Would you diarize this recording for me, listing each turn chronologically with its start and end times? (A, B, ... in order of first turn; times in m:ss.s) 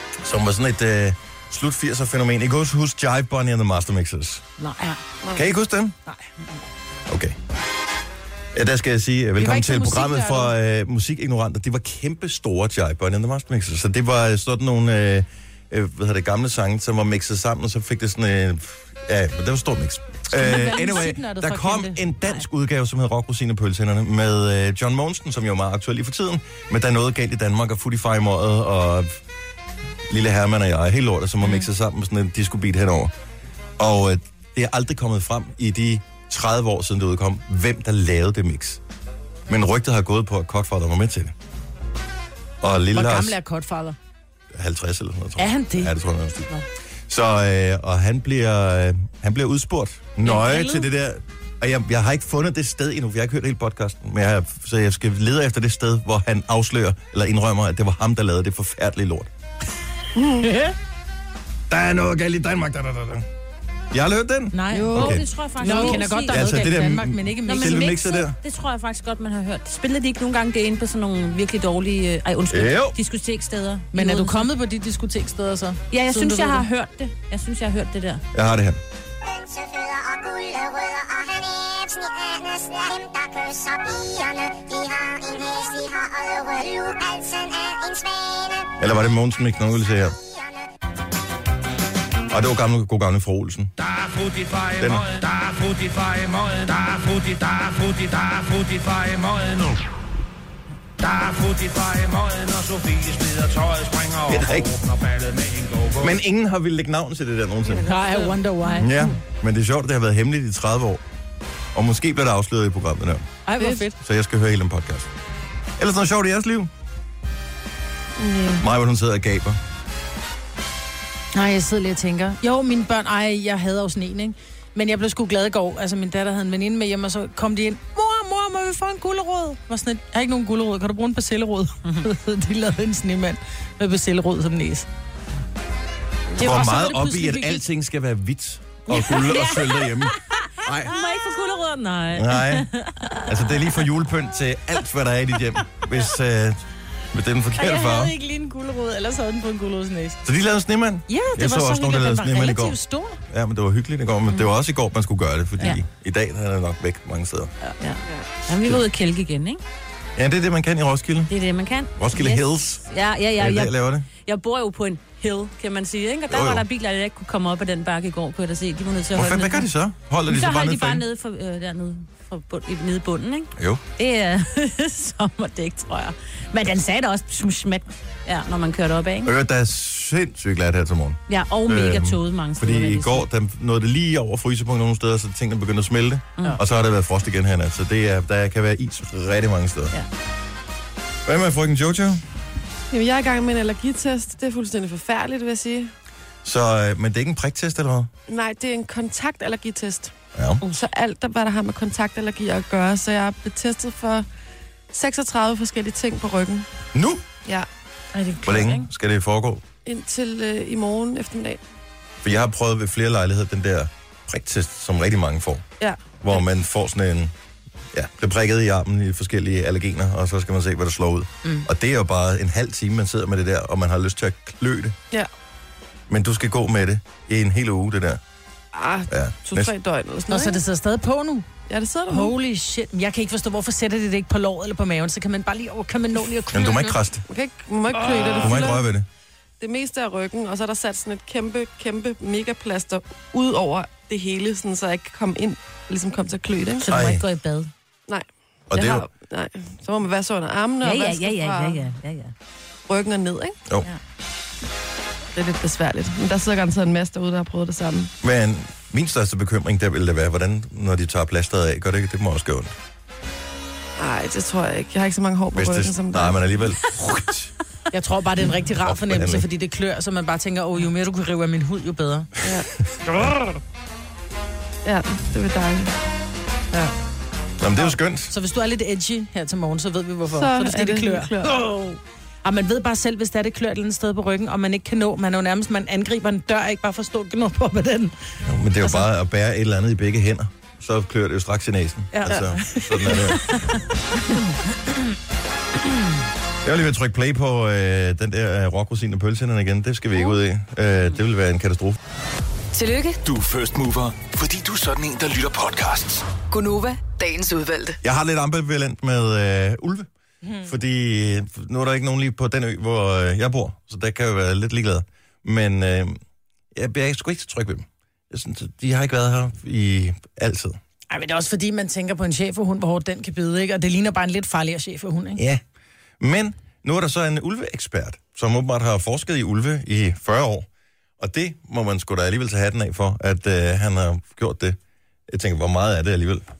0:00.2-0:04.4 A
0:04.6-0:05.0 B
0:05.3-0:06.0 A
0:07.1-0:07.4 A
0:08.5-0:29.2 A
0:09.4-0:10.6 B
0:20.3-0:22.1 B
0:30.1-0:33.1 A
0:33.8-0:38.8 A
0:39.5-0:41.3 A
0:42.6-0:43.4 A
0:42.9-0:44.0 B
0:44.5-0:46.5 A
0:45.4-0:45.9 B
0:47.1-0:59.3 A
0:50.2-0:50.8 B
1:00.2-1:00.5 C
1:01.7-1:03.3 A
1:03.9-1:08.4 A
1:04.5-1:05.1 B
1:04.7-1:05.7 C
1:04.9-1:06.5 D
1:05.6-1:07.9 B
1:07.5-1:14.5 D
1:12.5-1:13.0 A
1:13.9-1:16.7 B
1:15.9-1:18.2 D
1:18.3-1:18.8 A
1:19.2-1:28.8 E
1:28.8-1:30.2 A
1:29.8-1:30.7 E
1:32.3-1:33.7 A
1:33.8-1:39.8 F
1:34.8-1:35.1 A
1:41.0-1:46.2 F
1:44.3-1:44.7 A
1:46.0-1:47.9 A
1:47.8-1:48.9 B
1:48.8-1:51.0 A
1:51.7-1:53.3 A
1:53.5-1:54.0 B
1:54.0-1:55.1 A
1:55.8-1:56.7 A
1:58.2-1:58.6 C
1:58.6-1:59.6 A
2:01.3-2:14.9 B
2:16.4-2:17.6 B
2:16.4-2:20.9 A
2:18.9-2:23.7 D
2:22.1-2:22.7 A
2:23.3-2:28.1 A
2:27.6-2:30.2 B
2:30.2-2:32.8 A
2:31.1-2:33.2 B
2:33.3-2:37.5 A
2:37.8-2:39.6 D
2:40.2-2:41.3 A
2:41.3-2:49.7 D
2:42.0-2:42.8 A
2:43.4-2:44.1 A
2:46.3-2:46.6 A
2:49.2-2:51.0 A
2:50.3-2:59.3 D
2:53.6-2:53.8 A
2:59.2-3:10.0 A
3:01.3-3:03.3 D
3:11.3-3:12.2 A
3:12.9-3:15.9 C
3:16.4-3:18.1 A
3:18.3-3:20.2 C
3:20.4-3:20.6 A
3:20.7-3:24.3 C
3:24.9-3:26.7 C
3:26.9-3:27.2 A
3:28.1-3:28.9 D
3:28.4-3:29.6 A
3:29.8-3:31.6 C
3:32.2-3:35.6 A
3:35.8-3:36.1 C
3:36.2-3:37.3 A
3:37.9-3:45.0 A
3:46.1-3:48.2 A
3:48.7-3:50.6 C
3:49.1-3:49.7 A
3:50.3-3:51.5 B
3:51.7-3:52.4 C
3:52.1-3:57.0 B
3:56.5-3:57.2 A
3:57.3-3:58.8 C
3:58.1-3:59.1 A
3:59.6-4:06.9 C
4:06.8-4:07.7 D
4:06.9-4:07.2 A
4:08.1-4:11.8 C
4:08.7-4:09.1 A
4:10.8-4:12.3 D
4:12.9-4:13.6 C
4:15.3-4:18.1 C
4:18.2-4:22.7 A
4:24.0-4:26.5 C
4:25.5-4:27.5 A
4:27.9-4:32.3 B
4:28.6-4:29.4 A
4:32.4-4:32.7 C
4:33.0-4:33.3 A
4:34.8-4:36.0 C
4:37.6-4:38.3 A
4:37.8-4:48.1 B
4:40.3-4:41.6 C
4:48.4-4:53.6 A
4:48.8-4:49.1 B
4:52.1-4:54.4 B
4:56.6-5:02.0 A
5:02.7-5:03.2 G
5:03.2-5:06.3 H
5:06.5-5:08.0 G
5:08.0-5:10.1 A
5:10.6-5:16.2 A
5:16.7-5:20.8 A
5:21.1-5:25.4 B
5:25.4-5:25.6 A
5:26.2-5:30.7 A
5:31.2-5:34.8 A
5:35.3-5:36.4 A